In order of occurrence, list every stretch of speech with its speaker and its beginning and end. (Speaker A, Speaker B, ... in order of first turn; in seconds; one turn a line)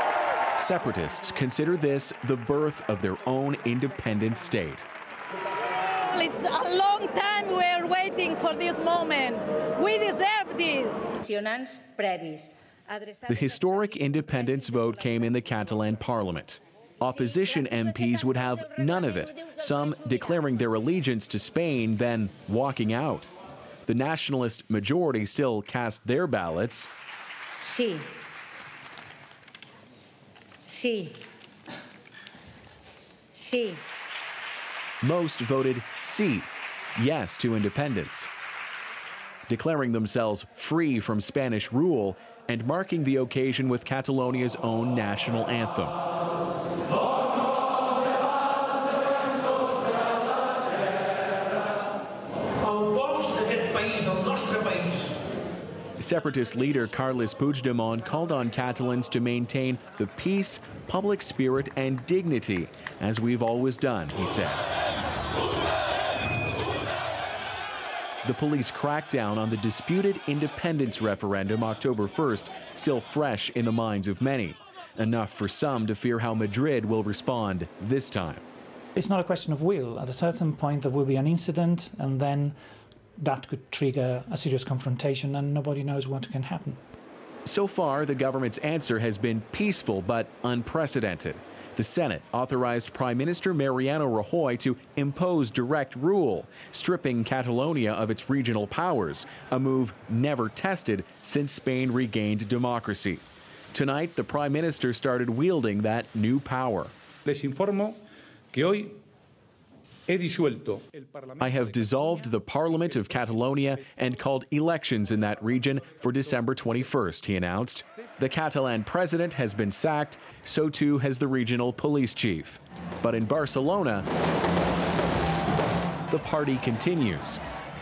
Speaker A: 0.6-4.9
Speaker B: 6.0-11.2
Speaker C: 11.2-14.2
Speaker A: 13.2-23.3
Speaker A: 23.9-26.9
Speaker C: 27.6-28.2
Speaker C: 30.7-31.2
Speaker C: 33.4-33.8
Speaker A: 35.0-38.3
Speaker A: 39.5-46.0
Speaker A: 56.0-64.6
Speaker A: 68.2-78.4
Speaker D: 79.0-82.6
Speaker D: 83.2-86.8
Speaker A: 87.5-106.9
Speaker E: 107.2-108.0
Speaker E: 108.5-109.0
Speaker E: 110.1-113.8
Speaker A: 111.4-124.1
Speaker A: 126.1-127.4